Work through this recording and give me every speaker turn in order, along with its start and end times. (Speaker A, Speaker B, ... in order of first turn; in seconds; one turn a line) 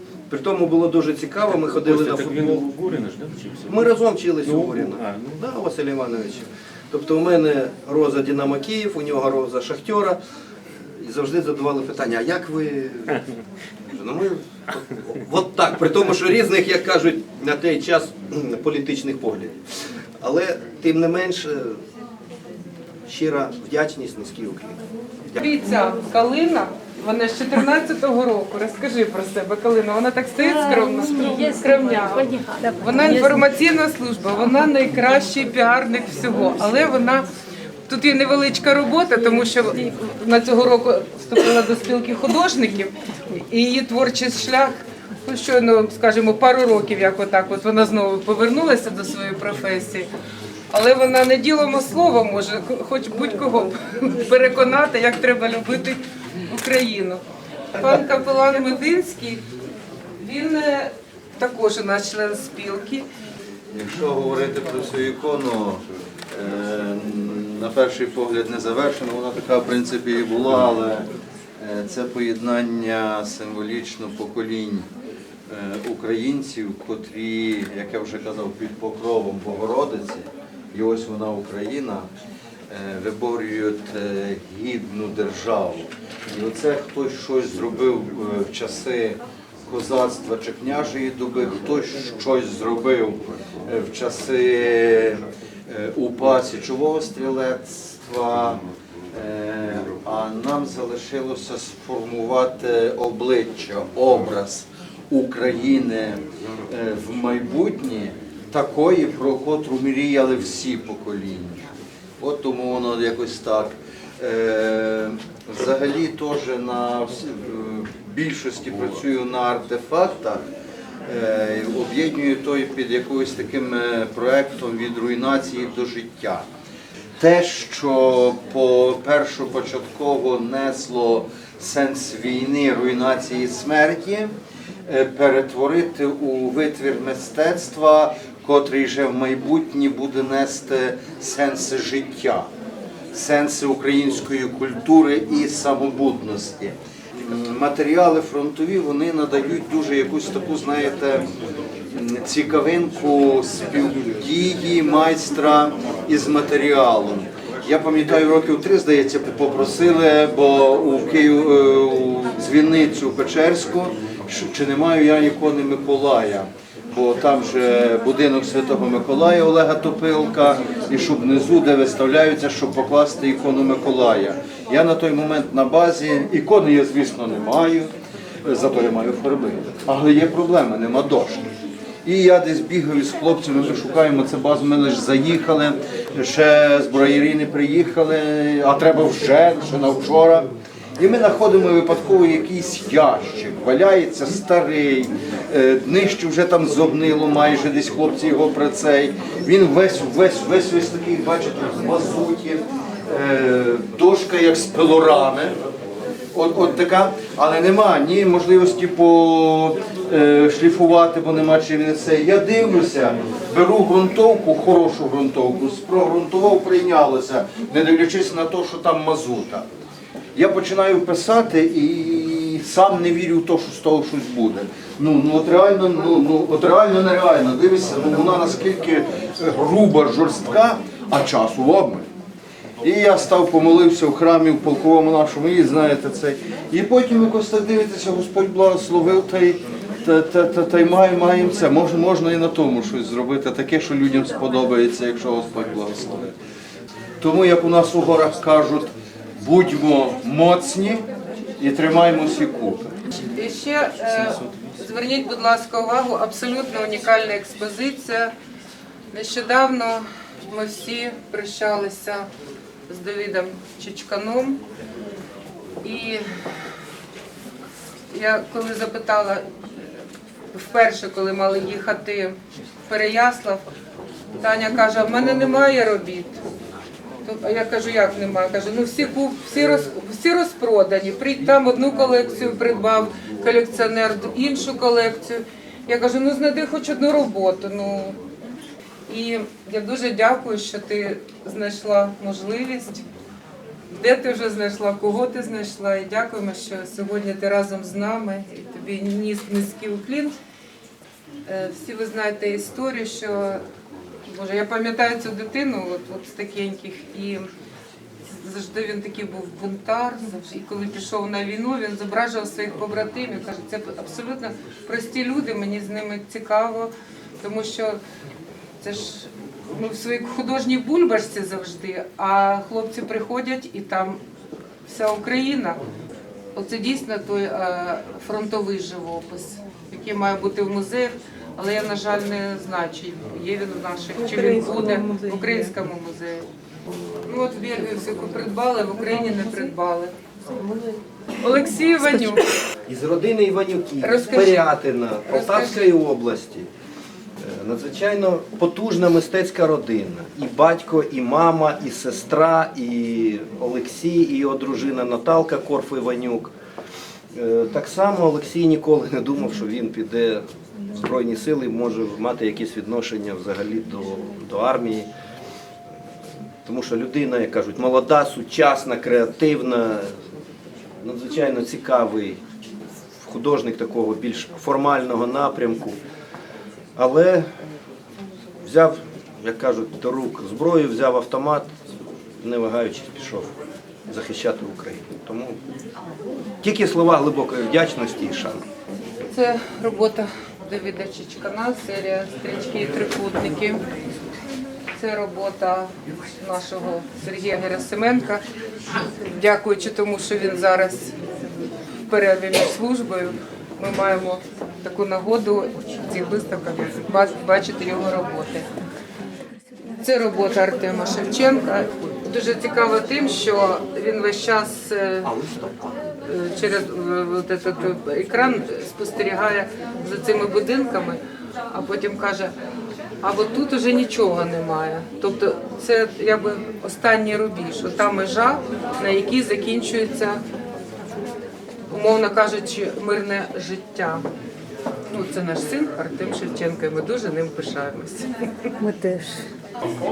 Speaker A: 0.3-2.6
Speaker B: 1.5-5.4
Speaker A: 3.7-10.2
Speaker A: 10.9-13.2
Speaker A: 13.9-19.6
Speaker A: 20.2-21.8
Speaker A: 23.1-24.8
Speaker C: 25.4-32.3
Speaker D: 30.4-33.5
Speaker C: 32.8-37.3
Speaker C: 37.9-42.9
Speaker C: 43.5-50.1
Speaker C: 50.7-57.2
Speaker C: 57.7-59.4
Speaker C: 60.2-63.0
Speaker E: 63.7-74.9
Speaker E: 75.5-82.1
Speaker E: 82.7-120.4
Speaker E: 121.0-126.5
Speaker E: 127.2-134.3
Speaker E: 134.8-142.5
Speaker E: 143.1-151.3
Speaker E: 151.9-177.9
Speaker E: 178.4-181.5
Speaker E: 182.0-205.6
Speaker E: 206.3-219.7
Speaker E: 220.3-232.1
Speaker E: 232.8-246.3
Speaker E: 247.2-251.0
Speaker E: 251.6-252.9
Speaker C: 253.2-258.3
Speaker B: 254.1-254.8
Speaker C: 259.1-262.3
Speaker C: 262.9-264.6
Speaker C: 265.8-266.2
Speaker C: 268.1-269.4
Speaker C: 270.5-273.6
Speaker C: 274.4-276.4
Speaker C: 277.2-288.2
Speaker C: 289.1-293.0
Speaker C: 293.9-300.4
Speaker C: 301.4-303.6
Speaker C: 304.2-307.5
Speaker C: 308.2-318.0
Speaker C: 318.8-324.2
Speaker C: 324.9-325.8
Speaker C: 326.5-336.5
Speaker D: 334.2-335.7
Speaker C: 337.2-340.1
Speaker D: 340.6-341.0
Speaker C: 341.4-342.4
Speaker D: 342.1-342.4
Speaker A: 342.9-346.7
Speaker C: 344.0-346.0
Speaker A: 347.4-356.5
Speaker A: 357.3-360.4
Speaker A: 360.9-365.1
Speaker A: 366.6-370.2
Speaker A: 371.0-372.4
Speaker A: 373.2-376.0
Speaker A: 376.9-377.4
Speaker A: 378.6-381.7
Speaker A: 382.4-383.6
Speaker A: 384.1-385.6
Speaker A: 386.6-388.6
Speaker C: 389.3-393.8
Speaker C: 394.9-398.4
Speaker C: 399.3-401.1
Speaker C: 402.1-408.6
Speaker C: 410.0-415.3
Speaker C: 416.2-422.5
Speaker C: 423.2-430.4
Speaker C: 431.9-434.2
Speaker C: 435.1-438.3
Speaker D: 438.8-439.4